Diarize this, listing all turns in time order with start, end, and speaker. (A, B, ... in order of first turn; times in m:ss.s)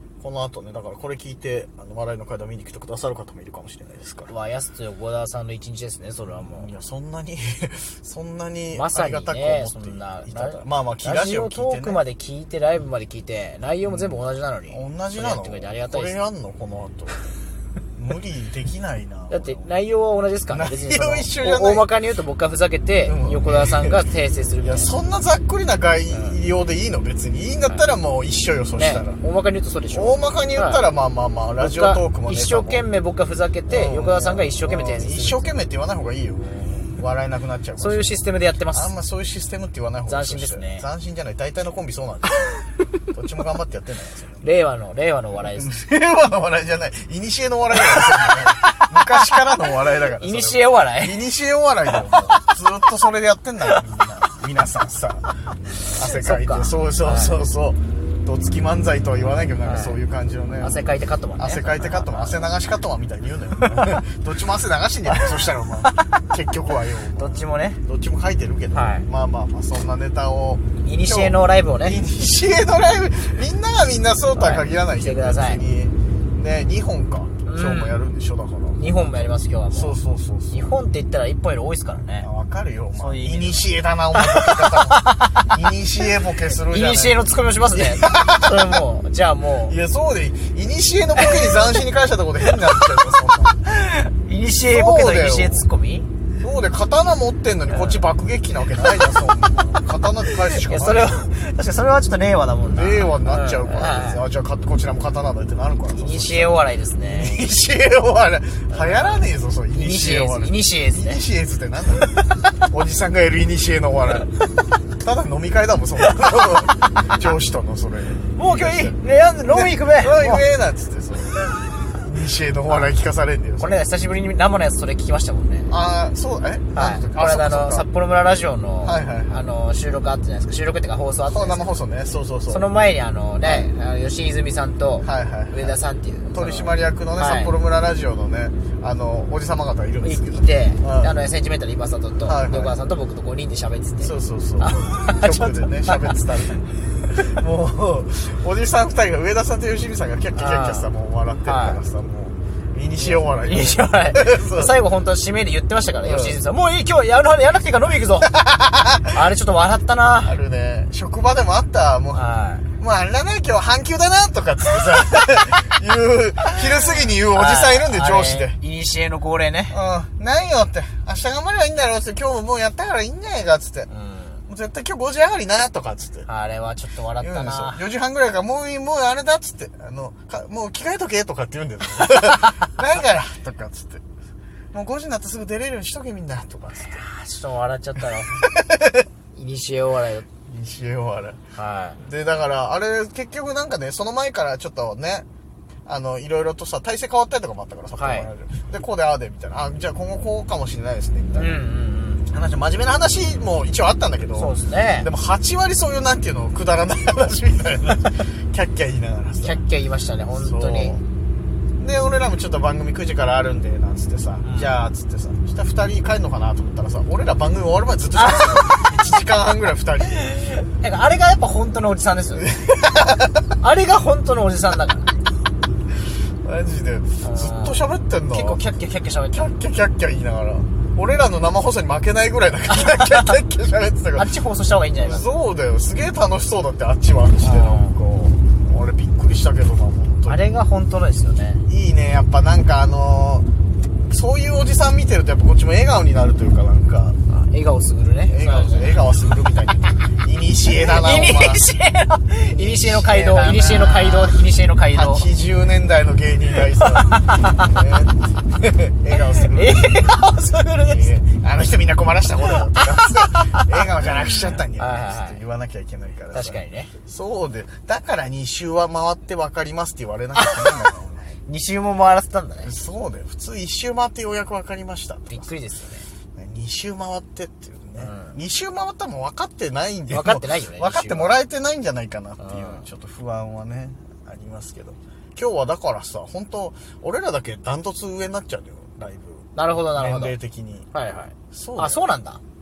0:00.2-0:04.3 A
0:04.3-0:06.7 B
0:06.2-0:12.0 A
0:08.7-0:16.2 B
0:13.8-0:14.2 A
0:14.7-0:17.3 A
0:18.0-0:19.7 A
0:19.3-0:24.9 B
0:20.5-0:21.9 A
0:23.0-0:24.0 A
0:24.6-0:29.2 A
0:26.1-0:26.4 B
0:28.8-0:30.8 B
0:29.9-0:32.8 A
0:31.6-0:35.5 B
0:33.7-0:42.5 A
0:37.8-0:38.9 B
0:40.1-0:40.8 B
0:43.1-0:44.4 A
0:44.4-0:45.7 B
0:45.4-1:00.8 A
0:47.8-0:51.2 B
0:51.9-0:52.4 B
0:55.8-0:57.4 B
0:59.6-1:00.0 B
1:00.6-1:02.5 B
1:01.4-1:20.7 A
1:03.6-1:04.0 B
1:05.1-1:06.3 B
1:07.2-1:07.8 B
1:08.7-1:09.1 B
1:10.8-1:12.0 B
1:14.3-1:15.6 B
1:17.4-1:18.0 B
1:18.8-1:20.0 B
1:20.5-1:22.3 B
1:22.2-1:27.2 A
1:22.9-1:25.6 B
1:26.5-1:29.8 B
1:27.7-1:28.8 A
1:29.6-1:33.6 A
1:31.2-1:31.8 B
1:32.4-1:33.0 B
1:33.6-1:36.1 B
1:34.7-1:35.7 A
1:36.4-1:41.3 A
1:37.7-1:38.1 B
1:38.8-1:44.2 B
1:42.7-1:54.4 A
1:45.9-1:47.5 B
1:48.7-1:51.2 B
1:55.0-2:03.8 A
1:56.0-1:57.2 B
1:58.3-2:00.4 B
2:03.6-2:05.7 B
2:05.7-2:07.9 A
2:06.7-2:11.7 B
2:08.8-2:09.5 A
2:11.3-2:12.7 A
2:12.5-2:17.5 B
2:15.0-2:15.8 A
2:16.3-2:21.1 A
2:20.0-2:26.2 B
2:22.2-2:22.8 A
2:24.0-2:34.8 A
2:30.4-2:30.9 B
2:31.4-2:31.8 B
2:33.0-2:38.3 B
2:36.0-2:36.4 A
2:38.3-2:39.1 A
2:39.1-2:40.4 B
2:40.2-2:42.2 A
2:42.1-2:42.6 B
2:42.8-2:48.6 A
2:47.0-2:49.8 B
2:49.7-2:53.9 A
2:53.9-2:54.4 B
2:54.5-2:56.3 A
2:56.2-2:57.8 B
2:57.2-3:04.0 A
3:04.7-3:07.0 A
3:06.8-3:08.5 B
3:08.3-3:09.0 A
3:09.3-3:10.3 B
3:10.4-3:11.4 A
3:11.5-3:12.0 B
3:12.0-3:15.2 A
3:15.8-3:21.6 A
3:17.9-3:18.3 B
3:21.3-3:22.3 B
3:22.3-3:29.6 A
3:24.3-3:25.1 B
3:29.4-3:31.0 B
3:30.4-3:31.0 A
3:31.8-3:40.4 A
3:34.4-3:34.8 B
3:38.1-3:39.0 B
3:40.1-3:42.4 B
3:42.4-3:43.5 A
3:43.6-3:45.2 B
3:46.4-3:48.6 A
3:47.2-3:49.5 B
3:49.3-3:54.3 A
3:52.7-3:53.4 B
3:54.1-3:55.3 B
3:55.0-4:00.6 A
3:57.4-3:57.9 B
4:00.3-4:01.6 B
4:01.7-4:03.4 A
4:04.1-4:07.2 A
4:07.3-4:09.0 B
4:08.3-4:11.6 A
4:10.6-4:15.3 B
4:12.5-4:14.4 A
4:14.9-4:20.2 A
4:16.8-4:17.8 B
4:19.1-4:21.1 B
4:20.8-4:31.3 A
4:22.5-4:23.7 B
4:24.8-4:25.4 B
4:26.3-4:26.9 B
4:30.3-4:30.9 B
4:31.4-4:32.7 B
4:32.6-4:35.5 A
4:35.3-4:36.1 B
4:36.3-4:50.9 A
4:38.0-4:38.4 B
4:40.1-4:41.4 B
4:42.4-4:42.9 B
4:49.5-4:50.4 B
4:50.9-4:52.4 B
4:51.5-4:52.1 A